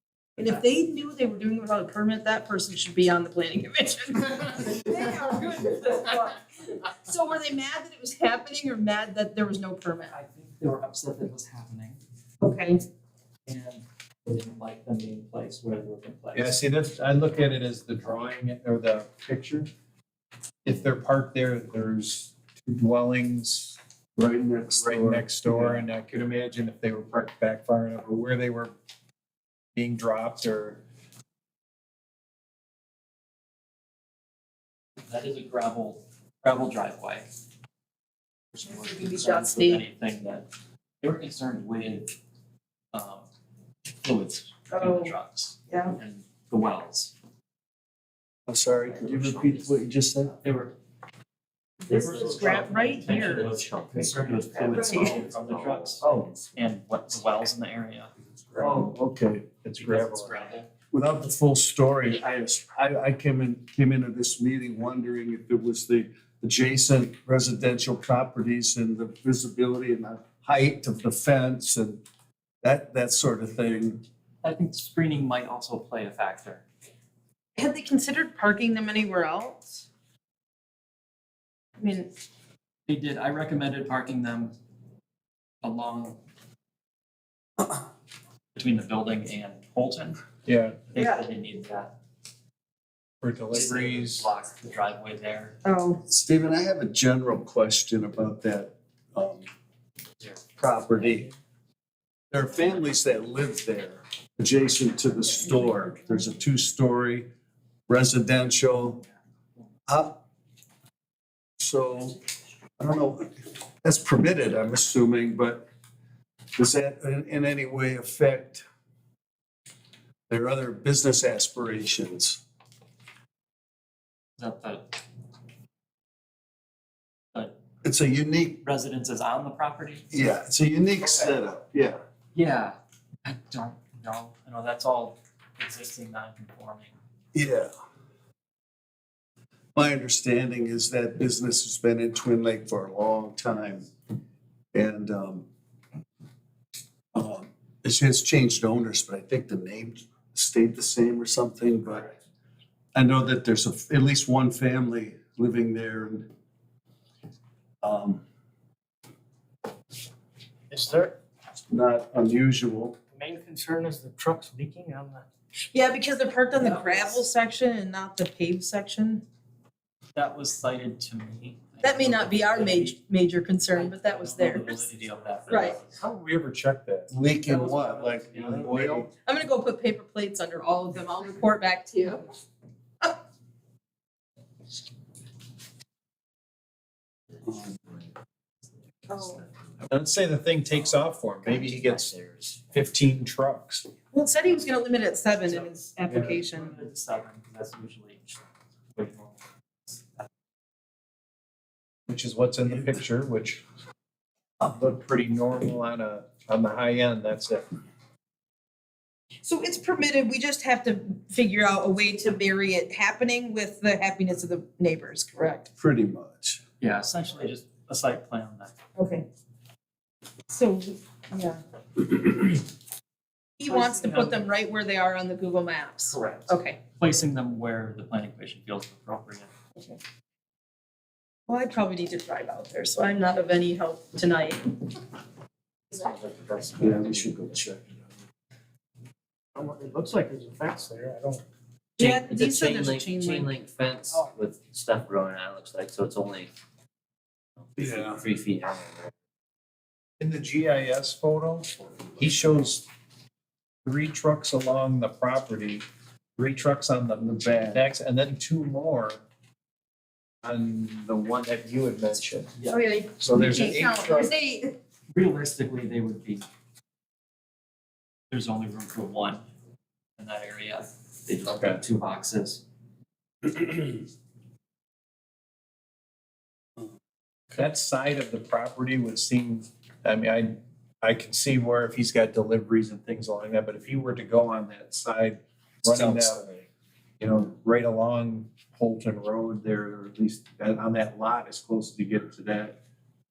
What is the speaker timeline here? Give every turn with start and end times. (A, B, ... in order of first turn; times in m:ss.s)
0:00.4-0:10.1 A
0:10.1-0:12.0 B
0:12.4-0:12.8 A
0:13.5-0:16.6 B
0:16.3-0:19.7 C
0:20.6-0:23.8 C
0:24.2-0:25.8 D
0:24.7-0:28.7 C
0:29.7-0:30.8 C
0:35.0-0:37.3 B
0:38.5-0:40.5 B
0:38.7-0:39.8 A
0:41.0-0:42.1 B
0:42.9-0:43.2 B
0:44.0-0:47.1 B
0:44.7-0:45.1 A
0:45.7-0:46.0 A
0:48.5-0:50.4 D
0:48.9-0:49.8 B
0:50.4-0:50.7 B
0:51.8-0:53.5 A
0:51.8-0:58.9 B
0:52.2-0:56.4 E
0:54.7-0:55.2 A
0:56.0-0:56.3 D
0:58.6-0:59.5 D
0:59.6-1:00.6 C
0:59.8-1:00.7 B
1:00.9-1:12.0 D
1:12.6-1:14.0 D
1:14.4-1:16.6 B
1:17.6-1:19.8 A
1:21.8-1:22.1 A
1:22.9-1:24.5 B
1:25.6-1:26.2 B
1:28.5-1:30.2 B
1:30.4-1:30.9 C
1:30.9-1:31.9 B
1:30.9-1:31.2 A
1:33.2-1:34.3 C
1:33.5-1:35.6 B
1:35.6-1:36.0 A
1:36.1-1:39.5 D
1:40.6-1:41.3 D
1:42.3-1:47.3 D
1:47.9-1:49.0 D
1:49.9-1:50.2 D
1:51.6-1:52.2 D
1:52.8-1:55.6 D
1:56.6-1:58.6 D
2:00.3-2:02.4 D
2:04.4-2:05.0 B
2:07.8-2:08.6 D
2:08.6-2:10.1 B
2:10.1-2:12.0 D
2:12.3-2:16.9 B
2:17.3-2:17.7 D
2:19.7-2:23.9 D
2:24.7-2:25.4 D
2:27.1-2:32.1 D
2:32.9-2:36.3 D
2:37.8-2:38.2 D
2:40.7-2:41.1 F
2:41.7-2:43.0 D
2:43.1-2:45.3 F
2:45.7-2:49.2 A
2:46.5-2:47.2 B
2:50.1-2:52.9 B
2:51.8-2:54.9 A
2:53.7-2:56.0 B
2:55.5-2:55.8 A
2:56.0-2:57.1 C
2:57.1-2:59.1 D
2:57.5-2:58.7 B
2:58.6-2:59.1 C
2:59.2-3:02.3 A
3:09.1-3:09.4 A
3:09.9-3:12.1 C
3:10.7-3:12.7 E
3:12.7-3:13.9 C
3:14.1-3:16.8 A
3:15.5-3:20.3 B
3:16.1-3:16.4 C
3:22.1-3:23.6 C
3:24.6-3:27.7 C
3:29.4-3:35.7 A
3:35.8-3:36.6 D
3:36.8-3:38.7 B
3:39.0-3:39.2 A
3:40.5-3:42.4 A
3:43.6-3:46.8 A
3:43.7-3:44.4 B
3:46.1-3:49.5 B
3:51.5-3:54.7 A
3:56.0-3:57.1 E
3:56.8-3:57.9 D
3:59.5-4:01.4 F
4:02.0-4:03.5 A
4:02.0-4:06.5 E
4:07.7-4:09.1 E
4:07.8-4:08.2 D
4:10.2-4:12.8 C
4:13.8-4:15.8 C
4:16.4-4:19.2 C
4:20.4-4:22.5 C
4:22.7-4:24.8 A
4:23.2-4:24.3 C
4:25.1-4:26.4 B
4:28.3-4:29.4 B
4:30.2-4:32.6 B
4:31.4-4:31.8 C
4:37.5-4:46.4 C
4:46.1-4:46.4 D
4:47.2-4:52.8 C